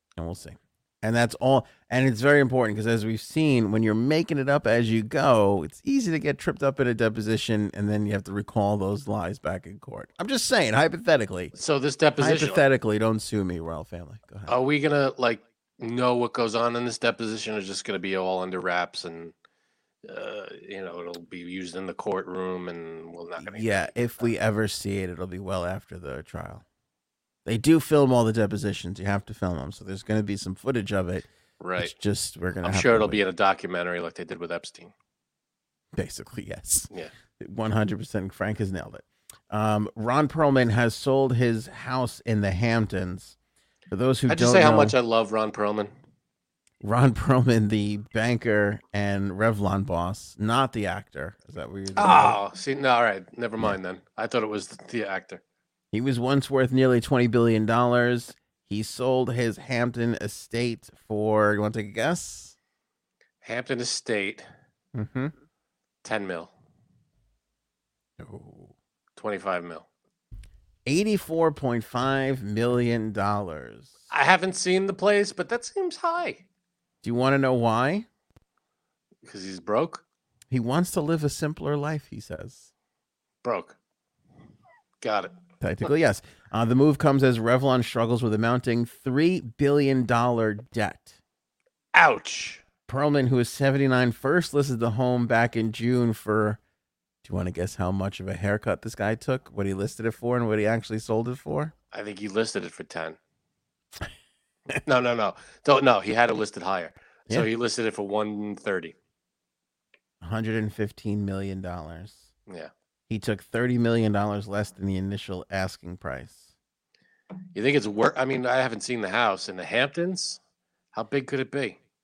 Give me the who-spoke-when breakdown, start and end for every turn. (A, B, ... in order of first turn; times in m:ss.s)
0:00.2-0:11.6 A
0:11.6-0:12.6 B
0:12.2-0:14.5 A
0:14.5-0:19.3 B
0:20.0-0:24.3 B
0:23.4-0:26.6 A
0:27.4-0:33.2 A
0:31.6-0:31.9 B
0:32.6-0:34.9 B
0:35.9-0:43.4 A
0:43.9-0:44.9 A
0:44.3-0:45.9 B
0:46.8-0:52.4 A
0:52.0-0:55.4 B
0:55.9-1:02.5 A
1:03.4-1:04.4 B
1:04.9-1:05.3 A
1:06.0-1:06.5 B
1:08.2-1:08.7 A
1:09.2-1:09.8 B
1:10.8-1:13.9 A
1:14.1-1:16.4 B
1:17.0-1:18.1 A
1:19.2-1:20.0 B
1:20.5-1:22.7 A
1:23.4-1:23.8 B
1:25.0-1:25.3 B
1:25.6-1:31.1 A
1:31.9-1:32.6 B
1:32.9-1:36.6 A
1:37.2-1:41.7 A
1:41.9-1:43.2 B
1:44.8-1:49.0 B
1:50.2-1:52.3 A
1:53.1-1:56.5 A
1:57.5-2:00.4 B
2:00.9-2:01.8 B